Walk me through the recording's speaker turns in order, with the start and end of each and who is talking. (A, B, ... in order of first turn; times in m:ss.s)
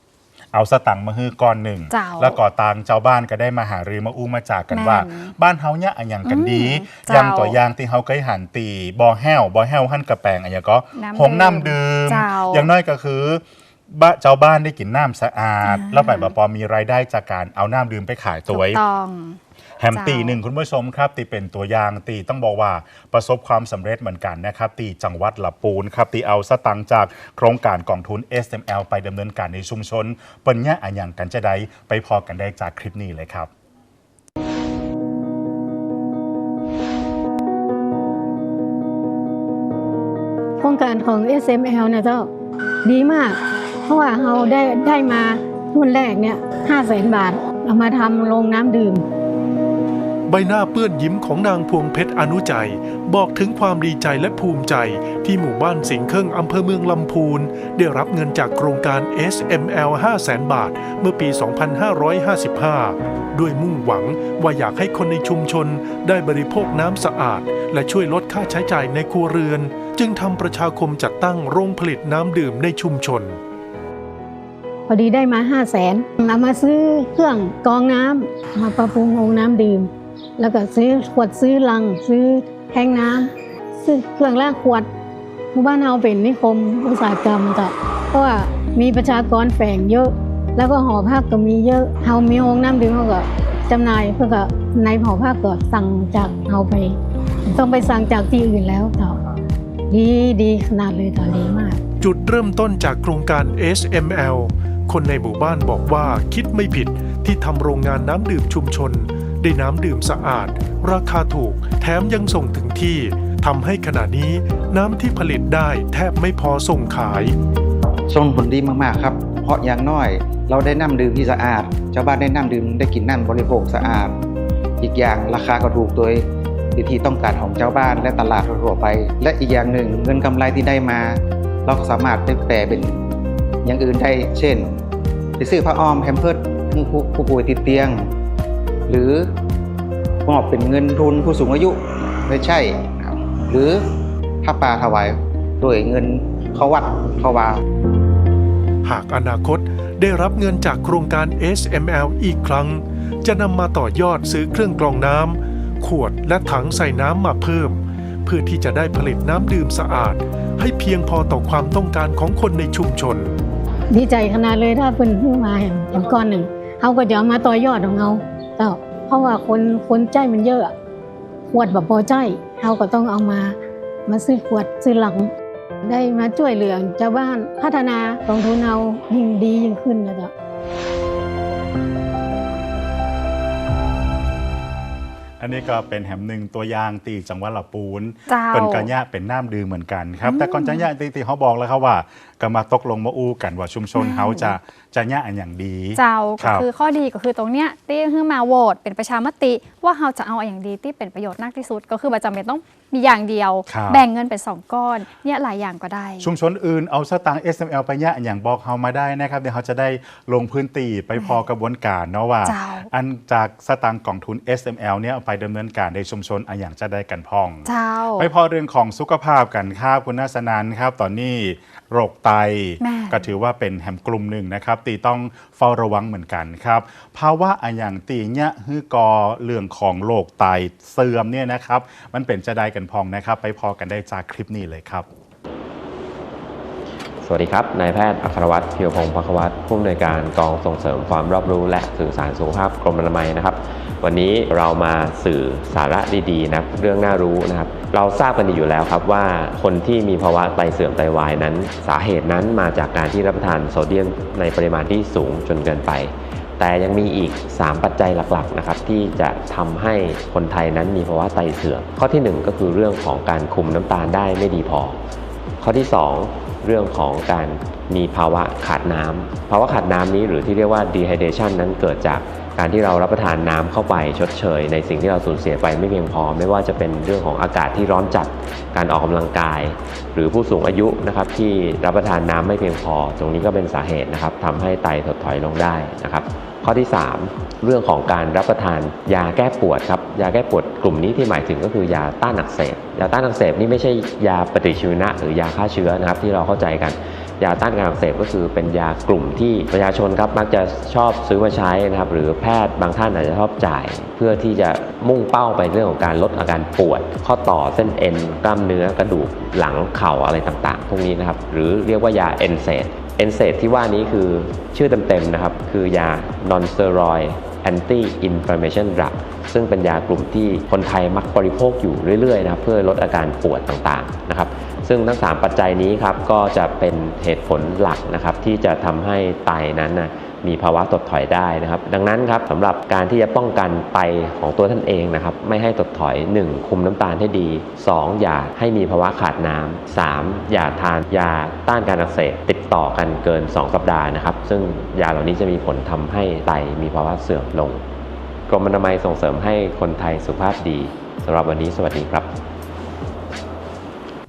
0:00.5-0:18.8 A
0:01.9-0:02.4 B
0:04.7-0:05.3 B
0:06.2-0:07.6 B
0:11.0-0:12.7 B
0:15.6-0:16.3 B
0:18.5-0:19.4 B
0:19.8-0:33.5 A
0:19.9-0:20.4 B
0:40.6-0:42.3 C
0:42.8-0:49.0 C
0:50.3-1:13.4 D
1:14.9-1:24.9 C
1:25.5-1:37.0 C
1:37.5-1:39.2 C
1:39.9-1:41.8 C
1:42.0-1:57.3 D
1:58.1-2:04.1 E
2:04.8-2:13.0 E
2:13.6-2:14.8 E
2:15.4-2:18.1 E
2:18.9-2:19.2 E
2:20.2-2:23.8 E
2:24.4-2:27.6 E
2:28.8-2:43.3 D
2:43.9-2:50.7 C
2:51.5-2:53.5 C
2:54.1-2:55.3 C
2:55.8-3:00.3 C
3:05.4-3:16.6 A
3:08.3-3:08.9 B
3:10.2-3:10.8 B
3:13.9-3:14.5 B
3:16.0-3:26.3 B
3:23.7-3:24.0 A
3:26.2-3:55.1 A
3:32.4-3:32.9 B
3:37.6-3:38.3 B
3:42.8-3:43.3 B
3:57.2-4:25.0 F
4:25.6-5:47.8 F
5:48.5-5:52.3 F